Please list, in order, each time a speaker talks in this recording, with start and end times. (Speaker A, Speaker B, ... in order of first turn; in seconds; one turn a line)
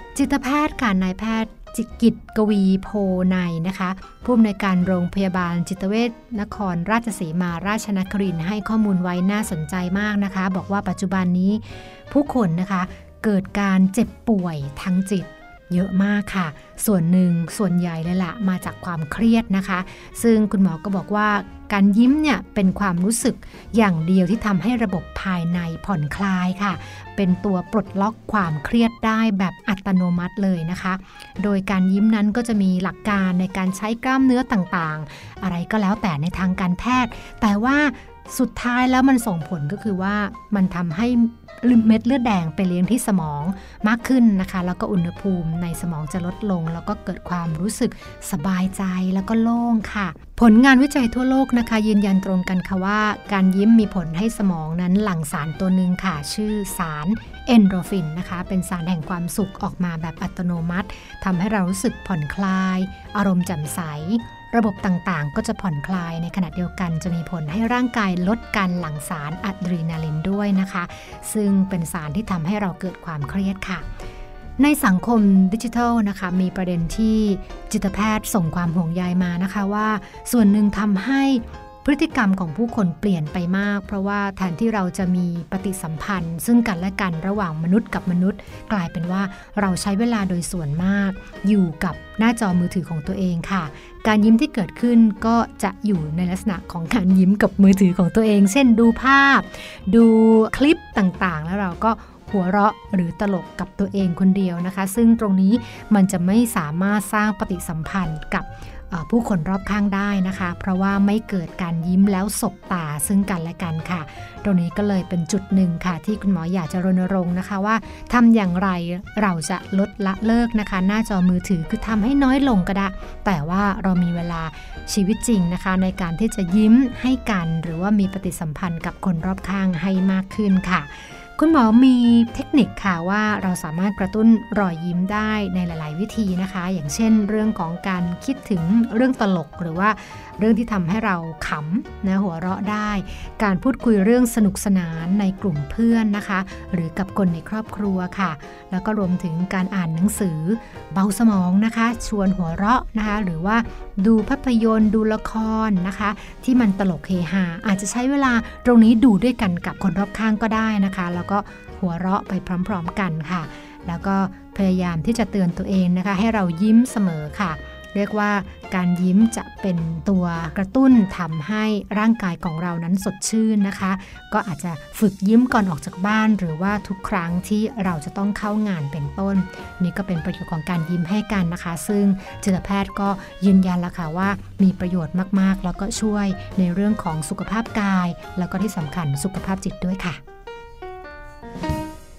Speaker A: 0.1-73.9
Speaker A: 74.6-190.2